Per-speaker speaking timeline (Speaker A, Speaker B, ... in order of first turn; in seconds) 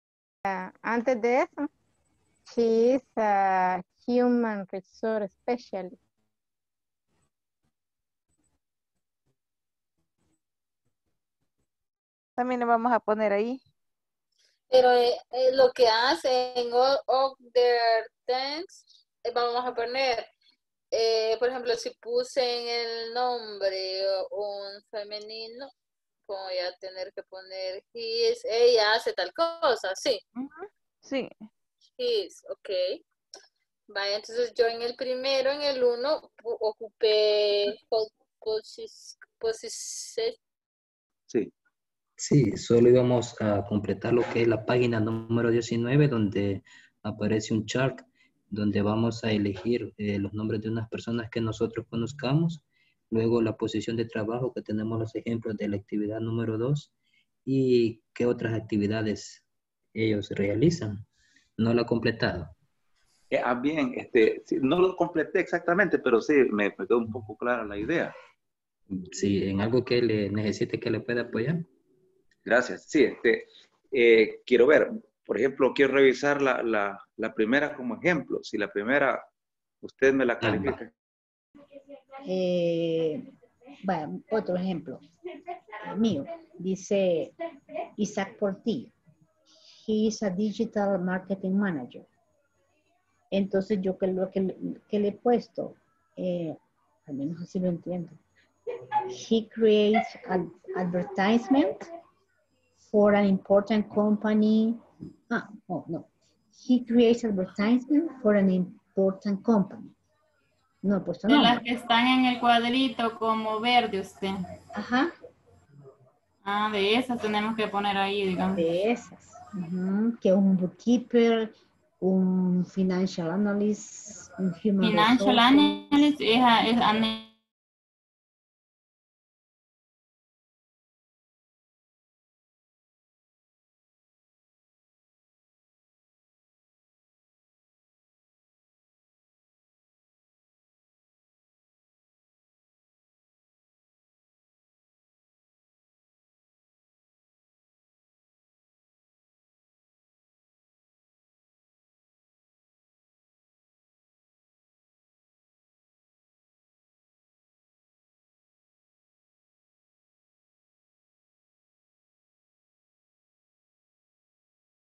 Speaker A: 0.5-1.7, 2.5-6.0
Speaker B: 12.4-13.6, 30.3-31.4
Speaker C: 14.7-20.3, 20.9-25.7, 26.3-30.2, 32.0-33.0, 33.9-40.4
Speaker D: 42.2-56.9, 57.5-59.4, 59.9-61.0, 61.6-62.5, 68.9-71.7, 80.4-80.8
Speaker E: 63.3-68.1, 72.5-79.2, 79.8-80.9
Speaker F: 82.2-83.3, 83.8-85.0, 85.8-87.3, 88.0-88.9, 89.8-92.1, 93.3-98.2, 99.1-101.9, 102.9-109.9, 110.8-111.6, 114.7-115.2, 118.5-126.1
Speaker G: 111.3-114.4, 116.4-118.6, 124.8-127.3